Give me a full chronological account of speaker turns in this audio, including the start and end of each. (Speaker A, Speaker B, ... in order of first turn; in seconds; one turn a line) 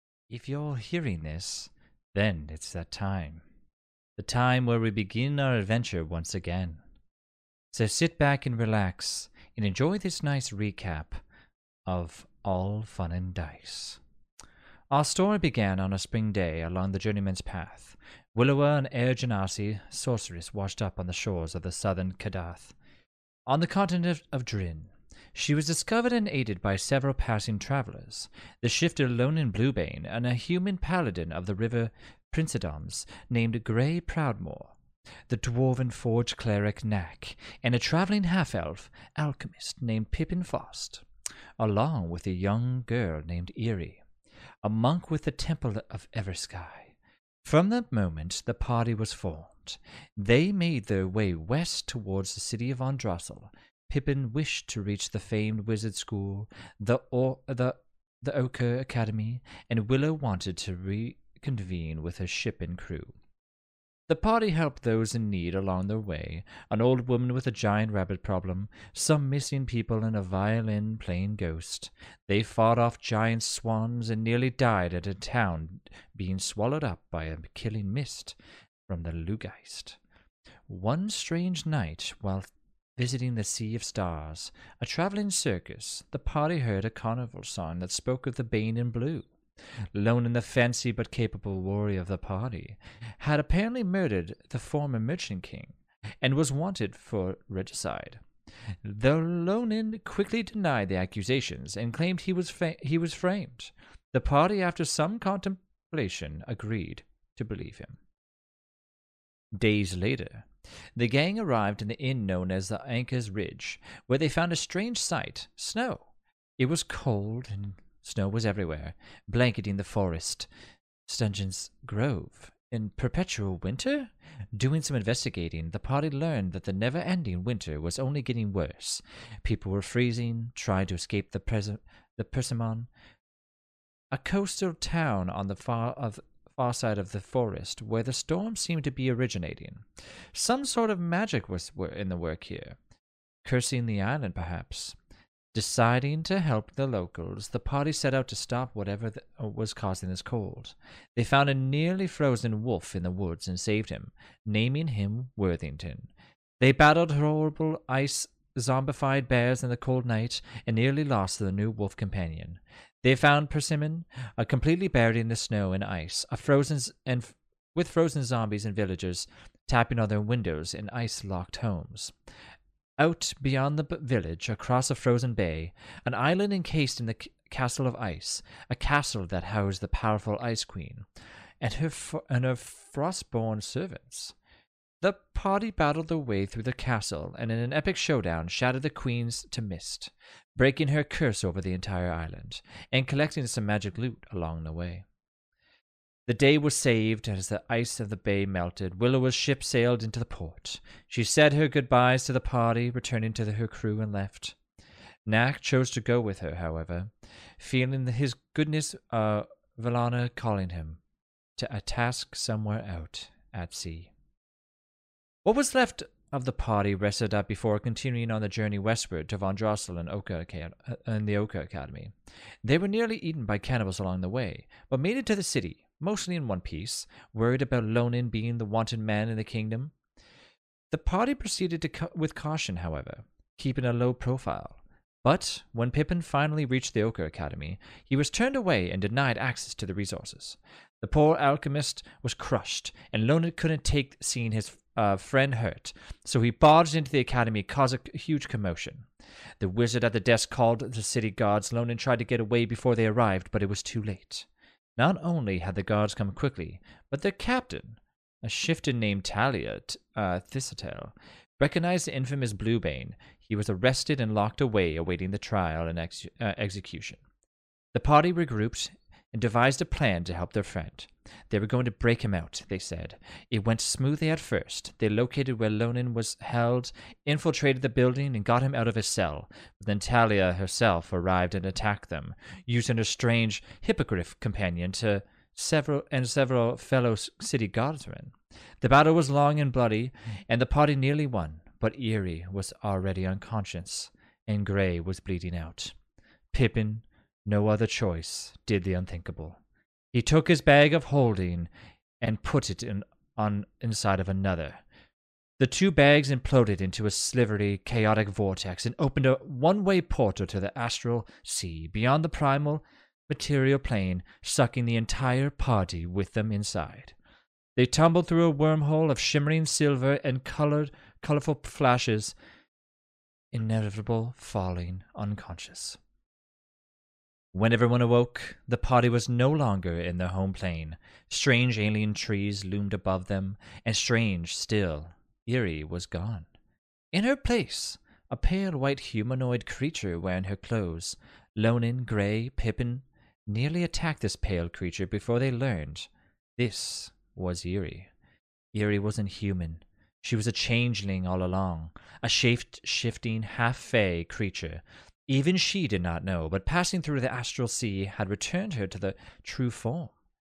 Speaker A: 0.3-3.4
Speaker A: 4.2-6.8
Speaker A: 7.7-11.2
Speaker A: 11.9-14.0
Speaker A: 14.9-22.7
Speaker A: 23.5-34.7
Speaker A: 35.3-41.0
Speaker A: 41.6-44.0
Speaker A: 44.6-46.9
Speaker A: 47.5-63.1
Speaker A: 64.1-78.4
Speaker A: 78.9-80.0
Speaker A: 80.7-89.3
Speaker A: 89.9-98.2
Speaker A: 98.8-108.0
Speaker A: 109.5-110.5
Speaker A: 111.0-116.0
Speaker A: 116.6-120.5
Speaker A: 121.1-132.9
Speaker A: 134.1-142.8
Speaker A: 143.4-144.9
Speaker A: 145.5-156.1
Speaker A: 156.6-172.1
Speaker A: 173.0-181.1
Speaker A: 181.6-184.3
Speaker A: 185.0-195.0
Speaker A: 196.3-204.6
Speaker A: 205.3-211.0
Speaker A: 211.6-214.1
Speaker A: 215.4-222.1
Speaker A: 222.6-229.9
Speaker A: 230.9-249.1
Speaker A: 249.6-254.5
Speaker A: 255.0-267.2
Speaker A: 267.9-295.9
Speaker A: 296.5-299.6
Speaker A: 300.1-301.7
Speaker A: 302.2-304.8
Speaker A: 305.6-317.1
Speaker A: 317.8-322.4
Speaker A: 323.5-326.0
Speaker A: 327.5-336.5
Speaker A: 337.1-348.1
Speaker A: 348.7-360.1